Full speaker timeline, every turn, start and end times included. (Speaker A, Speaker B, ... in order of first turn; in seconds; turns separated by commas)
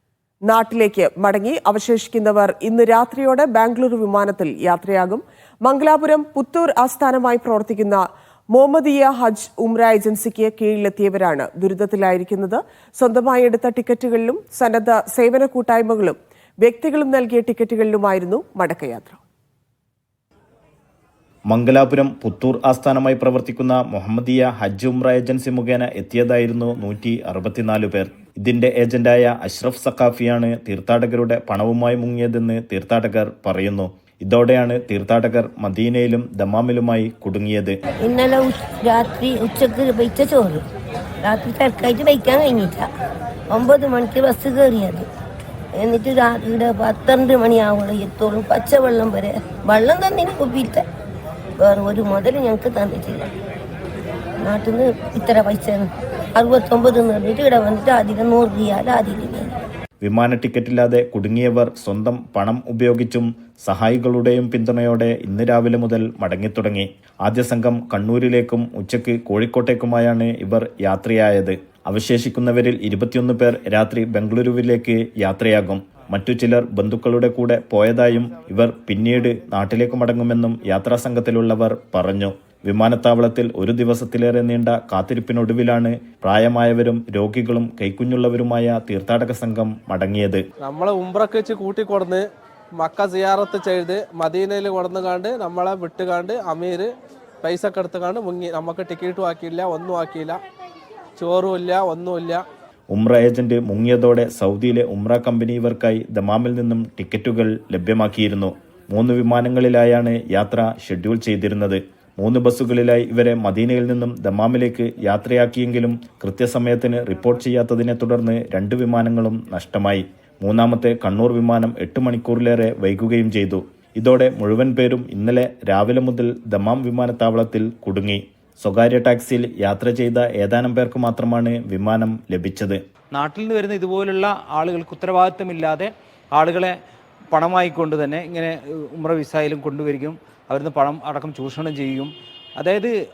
Speaker A: 0.5-19.2, Speaker B: 21.5-37.8, Speaker C: 38.0-40.6, Speaker C: 41.2-42.9, Speaker C: 43.5-45.1, Speaker C: 45.8-50.8, Speaker C: 51.6-53.3, Speaker C: 54.4-59.5, Speaker B: 60.0-90.4, Speaker D: 90.6-92.2, Speaker D: 92.8-96.9, Speaker D: 97.4-100.4, Speaker D: 101.2-102.4, Speaker B: 102.9-132.8, Speaker E: 133.1-136.8, Speaker E: 137.3-142.9